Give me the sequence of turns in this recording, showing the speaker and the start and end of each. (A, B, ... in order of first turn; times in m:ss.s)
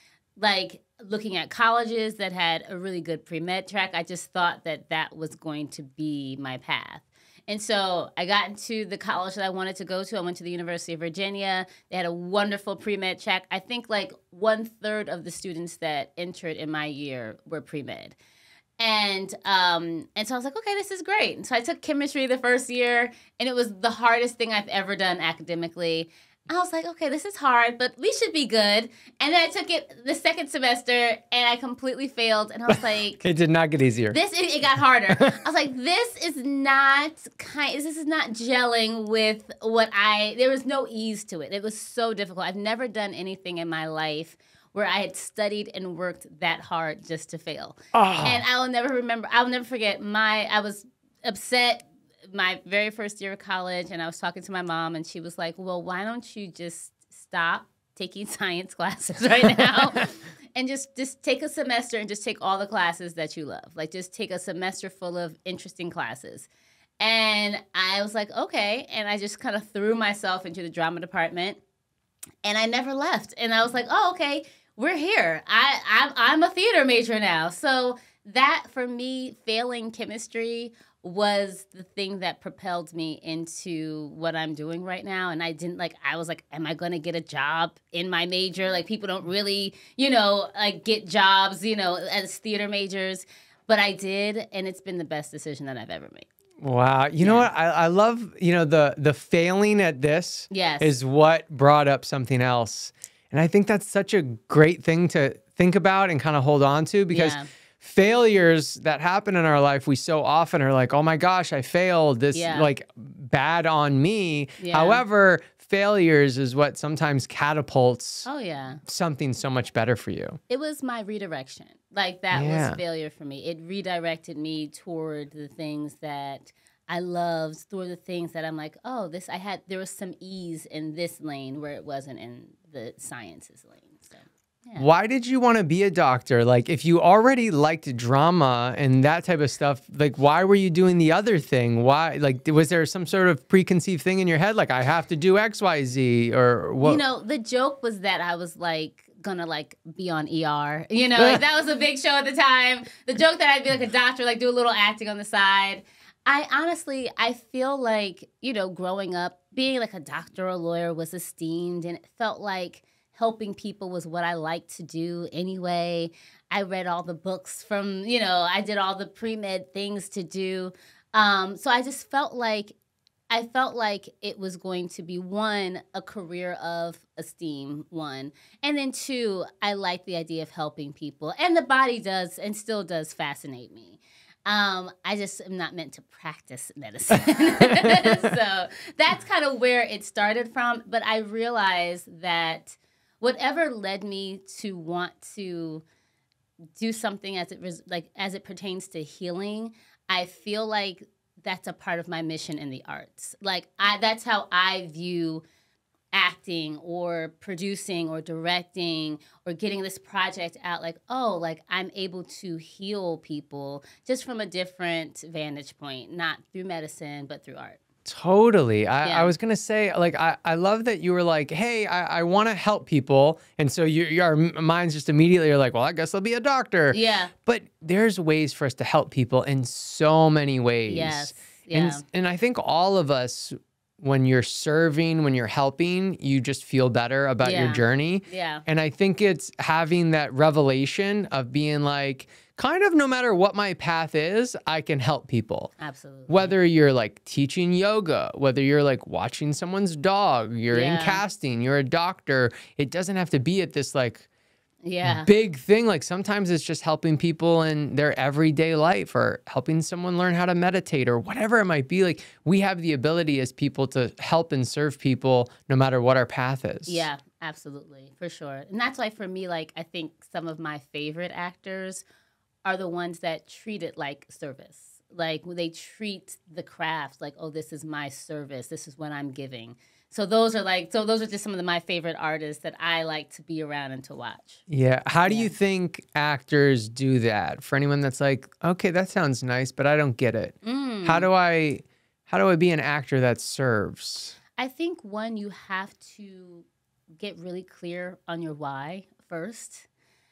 0:00.4-0:18.2 A
0:18.8-0:33.2 A
0:33.2-0:34.2 B
0:34.1-1:06.5 A
0:47.9-0:48.4 B
1:07.0-1:11.6 A
1:12.4-1:36.3 A
1:36.6-1:58.3 B
1:37.2-1:37.5 A
1:40.5-1:40.9 A
1:47.1-1:47.5 A
1:52.3-1:52.7 A
1:54.6-1:55.0 A
1:58.2-1:58.8 A
1:58.8-2:00.4 B
2:00.5-2:14.8 A
2:02.3-2:02.8 B
2:14.8-2:27.0 B
2:26.8-2:52.8 A
2:53.3-3:15.8 A
3:07.6-3:08.3 B
3:16.8-3:25.4 A
3:26.1-3:37.8 A
3:38.0-4:05.7 B
3:39.0-3:39.3 A
3:46.9-3:47.3 A
3:50.9-3:52.0 A
3:57.4-3:58.6 A
4:05.8-4:06.5 A
4:06.3-4:14.2 B
4:10.7-4:11.2 A
4:14.8-4:15.3 A
4:15.0-4:27.0 B
4:26.9-4:32.0 A
4:32.6-4:44.6 A
4:44.7-4:54.4 B
4:45.3-4:45.5 A
4:50.6-4:51.3 A
4:54.6-4:56.7 A
4:57.2-4:59.9 A